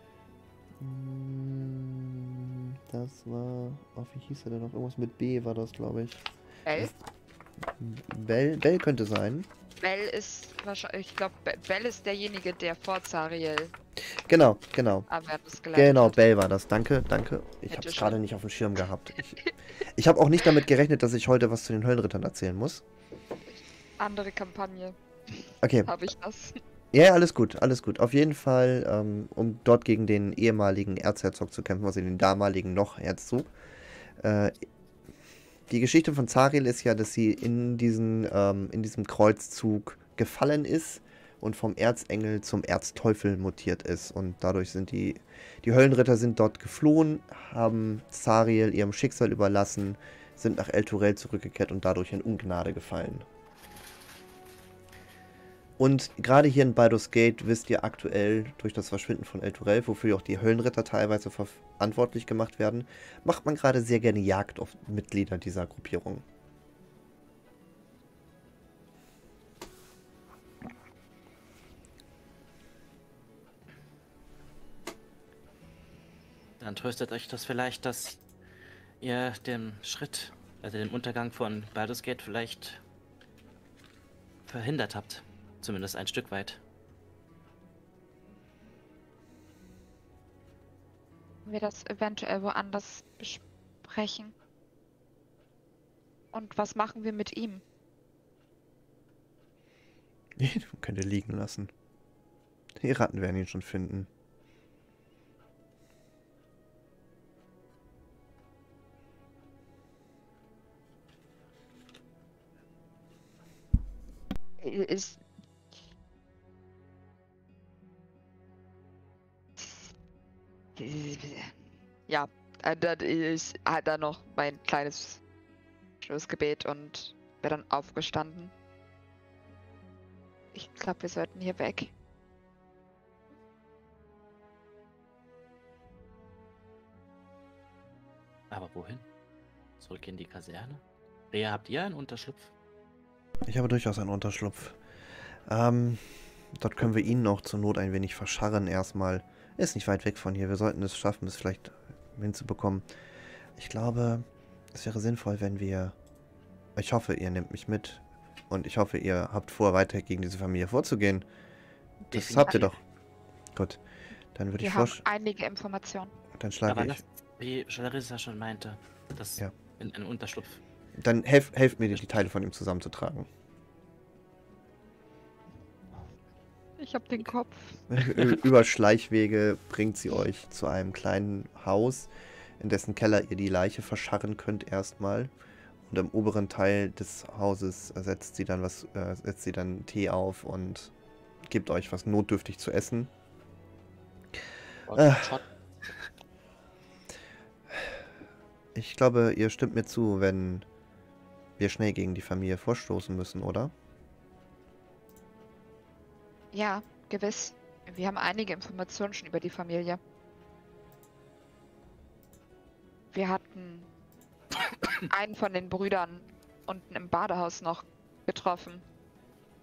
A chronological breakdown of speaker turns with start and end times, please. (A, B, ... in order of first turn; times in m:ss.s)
0:00.8-0:06.9 A
0:06.6-0:06.9 B
0:07.8-0:09.5 A
0:09.8-0:13.7 B
0:14.1-0:15.1 A
0:15.1-0:16.2 B
0:15.7-0:22.8 A
0:17.7-0:18.2 B
0:23.5-0:26.6 B
0:25.6-0:25.9 A
0:26.9-0:33.5 A
0:34.2-0:34.6 A
0:35.7-0:53.3 A
0:55.8-1:06.2 A
1:16.6-1:18.2 C
1:19.0-1:22.8 C
1:24.5-1:26.6 C
1:31.4-1:34.3 B
1:36.3-1:37.6 B
1:40.4-1:41.7 A
1:42.8-1:44.1 A
1:54.6-1:55.2 B
1:59.6-1:59.9 B
2:00.8-2:01.6 B
2:02.1-2:05.2 B
2:06.0-2:08.5 B
2:10.5-2:11.9 B
2:18.5-2:19.1 C
2:19.8-2:22.5 C
2:23.5-2:24.8 A
2:25.5-2:32.8 A
2:33.6-2:35.9 A
2:36.8-2:41.3 A
2:42.1-2:42.8 A
2:42.1-2:42.7 C
2:44.4-2:45.0 A
2:44.6-2:46.1 B
2:46.4-2:47.0 A
2:46.7-2:50.6 C
2:51.0-2:53.3 A
2:56.8-2:57.8 B
2:57.9-3:02.1 A
3:02.6-3:05.3 A
3:05.9-3:10.9 A
3:11.4-3:13.1 A
3:14.9-3:16.0 C
3:14.9-3:15.4 A
3:18.7-3:20.6 A
3:21.6-3:23.7 A
3:26.5-3:30.0 B
3:33.1-3:33.9 B
3:35.0-3:38.8 B